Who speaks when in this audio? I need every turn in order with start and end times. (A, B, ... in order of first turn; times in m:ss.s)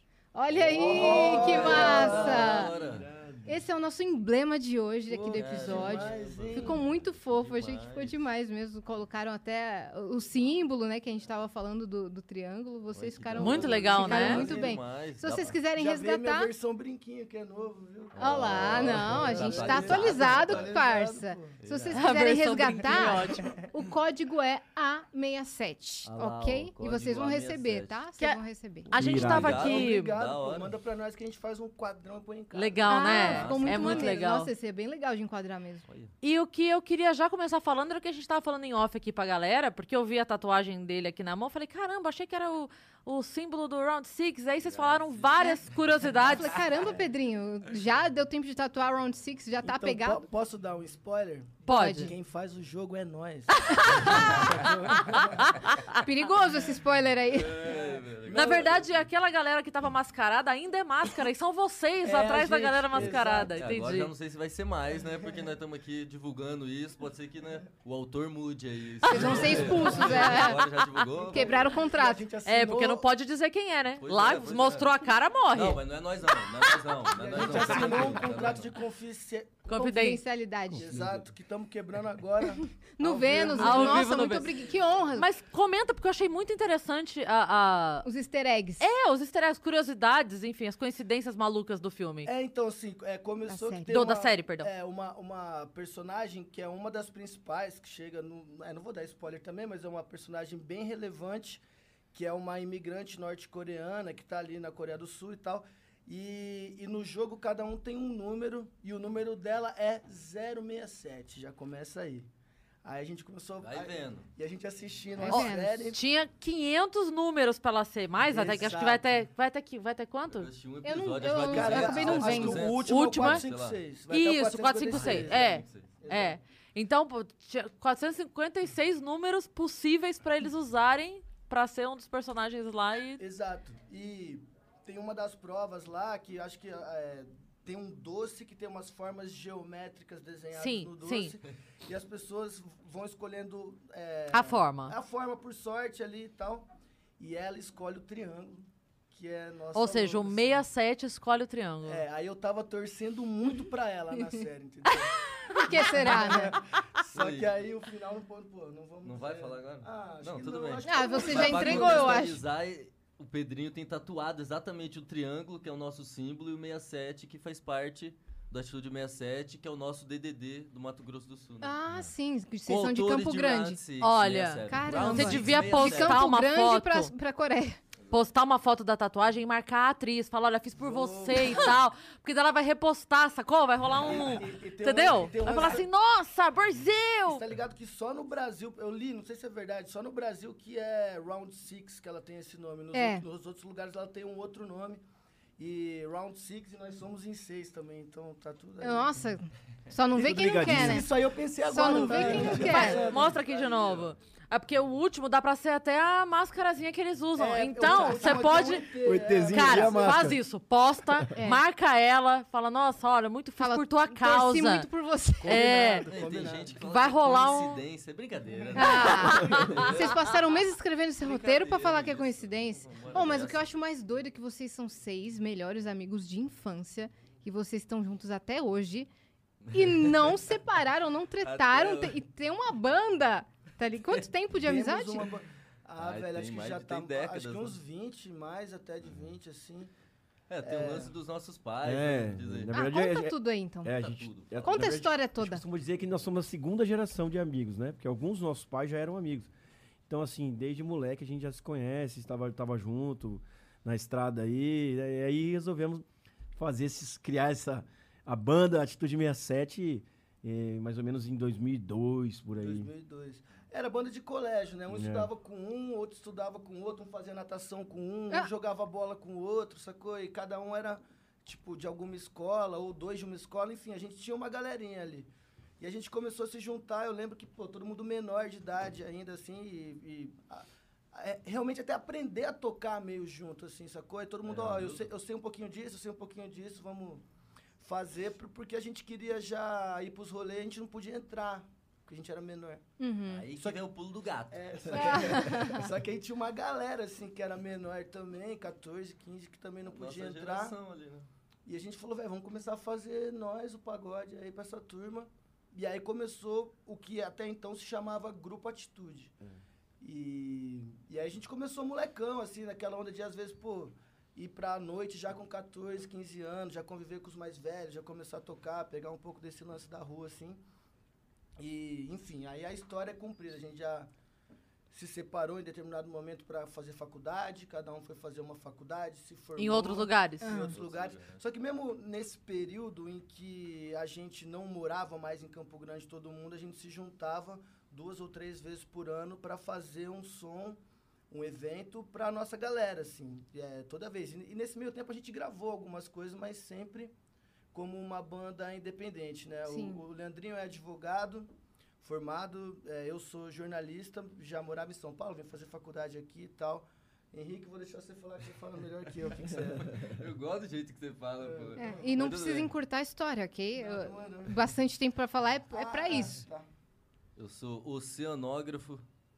0:00.3-0:02.7 A
0:00.7-0:02.6 B
0:00.9-0:03.1 C
0:02.0-0:03.6 D
0:03.5-0:16.5 A
0:05.1-0:06.9 B
0:05.3-0:08.2 C
0:12.9-0:15.6 C
0:13.4-0:14.4 E
0:13.4-0:14.8 B
0:15.7-0:21.6 B
0:18.2-0:20.7 C
0:18.2-0:28.9 A
0:21.6-0:22.0 C
0:21.9-0:23.5 E
0:26.0-0:28.0 C
0:28.2-0:30.2 E
0:28.9-0:29.6 D
0:29.0-0:30.7 C
0:29.4-0:33.3 B
0:32.5-0:34.5 E
0:32.9-0:35.9 A
0:33.2-0:34.2 C
0:35.9-0:36.1 C
0:36.2-0:46.5 E
0:44.7-0:45.3 C
0:46.2-0:50.2 A
0:49.6-0:55.5 B
0:51.7-0:52.1 E
0:51.7-0:52.1 A
0:53.6-0:55.9 E
0:55.9-0:57.8 A
0:57.3-0:58.8 C
0:57.6-0:58.8 B
0:58.3-1:04.1 E
1:02.0-1:03.6 B
1:02.9-1:11.6 C
1:09.1-1:10.7 A
1:09.1-1:10.5 B
1:10.0-1:10.4 E
1:11.2-1:13.0 B
1:11.3-1:12.3 A
1:12.4-1:15.8 E
1:14.0-1:14.9 C
1:15.6-1:18.8 C
1:17.2-1:19.7 B
1:19.7-1:20.2 E
1:19.7-1:20.9 A
1:20.8-1:24.4 B
1:23.0-1:25.3 A
1:23.6-1:24.5 E
1:25.2-1:28.1 E
1:28.0-1:28.8 A
1:28.8-1:32.3 E
1:32.2-1:52.3 B
1:33.5-1:34.1 A
1:33.9-1:34.7 E
1:52.8-1:56.0 B
1:53.6-1:54.3 C
1:55.2-1:55.9 A
1:55.3-2:00.5 E
1:58.3-1:59.2 B
2:00.3-2:03.8 C
2:00.8-2:02.9 A
2:01.4-2:06.4 B
2:02.8-2:03.4 E
2:04.1-2:13.2 E
2:04.9-2:06.0 C
2:13.2-2:26.7 B
2:20.5-2:21.3 E
2:24.3-2:25.0 E
2:27.2-2:30.6 B
2:29.7-2:32.0 E
2:31.8-2:42.3 B
2:35.5-2:36.6 A
2:37.1-2:37.5 C
2:39.0-2:51.8 C
2:40.8-2:42.4 A
2:51.6-2:53.8 A
2:52.6-2:56.3 C
2:54.0-2:57.1 E
2:54.7-2:57.8 A
2:58.1-3:07.4 E
3:00.8-3:01.8 B
3:03.9-3:05.9 B
3:07.3-3:15.0 B
3:12.9-3:13.2 A
3:15.6-3:19.1 B
3:18.8-3:21.1 A
3:20.2-3:24.1 B
3:20.2-3:21.1 D
3:21.7-3:23.0 A
3:21.8-3:23.5 C
3:22.4-3:28.9 E
3:27.4-3:30.3 B
3:28.0-3:28.5 A
3:29.0-3:30.4 D
3:29.5-3:34.9 E
3:31.4-3:31.6 A
3:33.6-3:36.1 A
3:35.4-3:36.1 E
3:35.4-3:36.8 B
3:36.1-3:40.5 C
3:36.9-3:37.8 E
3:38.8-3:49.1 A
3:38.8-3:39.8 E
3:41.2-3:43.7 C
3:49.7-3:50.4 C
3:49.7-3:55.3 A
3:51.4-3:52.2 C
3:54.6-3:59.9 B
3:56.0-3:57.8 C
4:00.5-4:02.7 C
4:00.6-4:01.1 B
4:01.8-4:09.5 D
4:02.7-4:04.0 A
4:03.9-4:04.8 C
4:04.6-4:05.6 A
4:10.1-4:16.0 D
4:16.6-4:22.9 D
4:22.6-4:47.2 B
4:24.9-4:25.3 D
4:44.5-4:45.0 C
4:47.8-4:52.8 B
4:53.0-4:53.5 A
4:53.3-4:55.4 C
4:54.5-5:00.8 B
4:54.9-4:55.9 A
4:59.9-5:01.3 C
5:01.7-5:09.3 B
5:10.0-5:20.6 B
5:21.6-5:24.1 B
5:24.9-5:40.8 B
5:29.6-5:30.6 E
5:30.4-5:30.8 A
5:30.5-5:31.4 C
5:41.3-5:47.1 B
5:47.7-5:51.5 B
5:49.7-5:50.0 A
5:52.0-5:59.9 B
5:59.8-6:02.7 C
6:01.4-6:02.0 B
6:01.8-6:06.4 A
6:03.8-6:04.6 B
6:05.7-6:06.7 B
6:07.4-6:09.0 C